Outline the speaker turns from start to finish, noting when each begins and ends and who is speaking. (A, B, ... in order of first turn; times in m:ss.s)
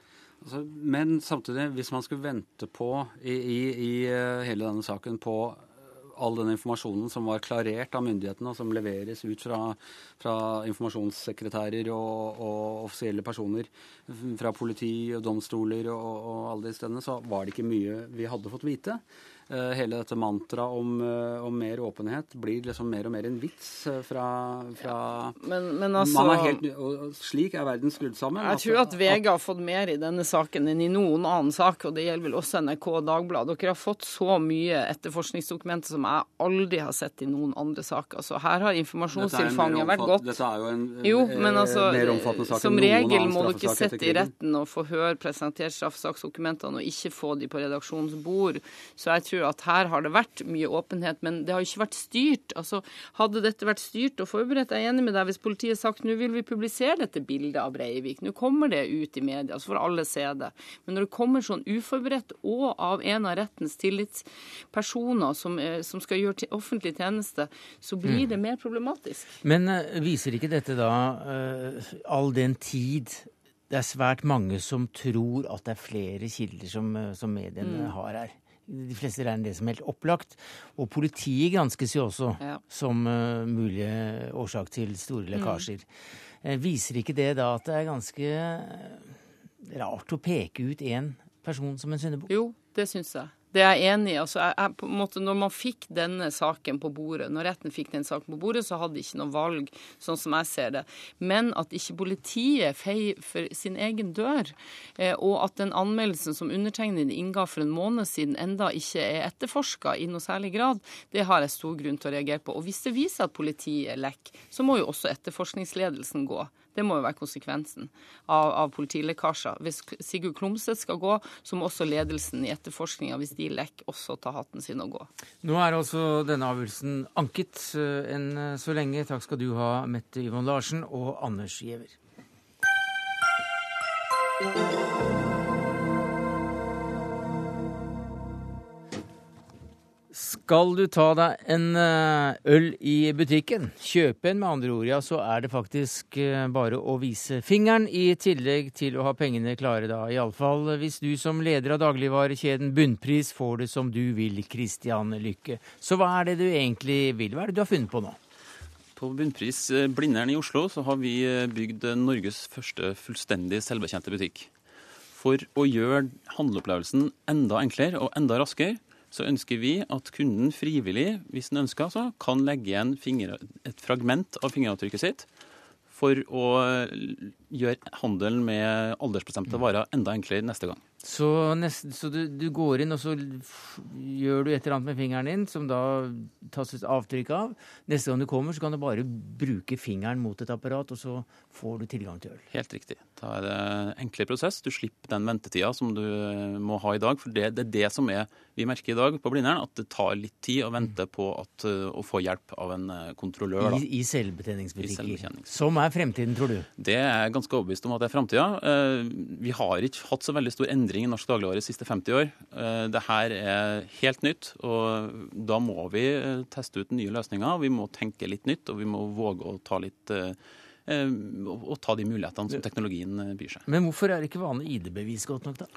0:00.4-0:25.4 A
0:25.4-0:26.6 B
0:25.9-0:29.2 A
0:28.4-0:40.2 B
0:39.1-0:44.3 A
0:41.0-1:09.4 B
1:09.4-1:25.9 C
1:17.6-1:17.9 B
1:25.3-1:25.6 B
1:26.4-1:29.1 C
1:29.6-1:32.3 C
1:32.3-2:05.1 B
2:05.4-2:11.9 C
2:20.1-2:38.2 C
2:39.0-2:44.5 D
2:45.1-2:55.3 D
2:55.9-3:00.8 D
3:01.0-3:12.4 C
3:12.5-3:23.8 D
3:23.6-3:26.7 C
3:24.8-3:25.5 D
3:26.8-3:43.6 D
3:43.6-3:45.7 C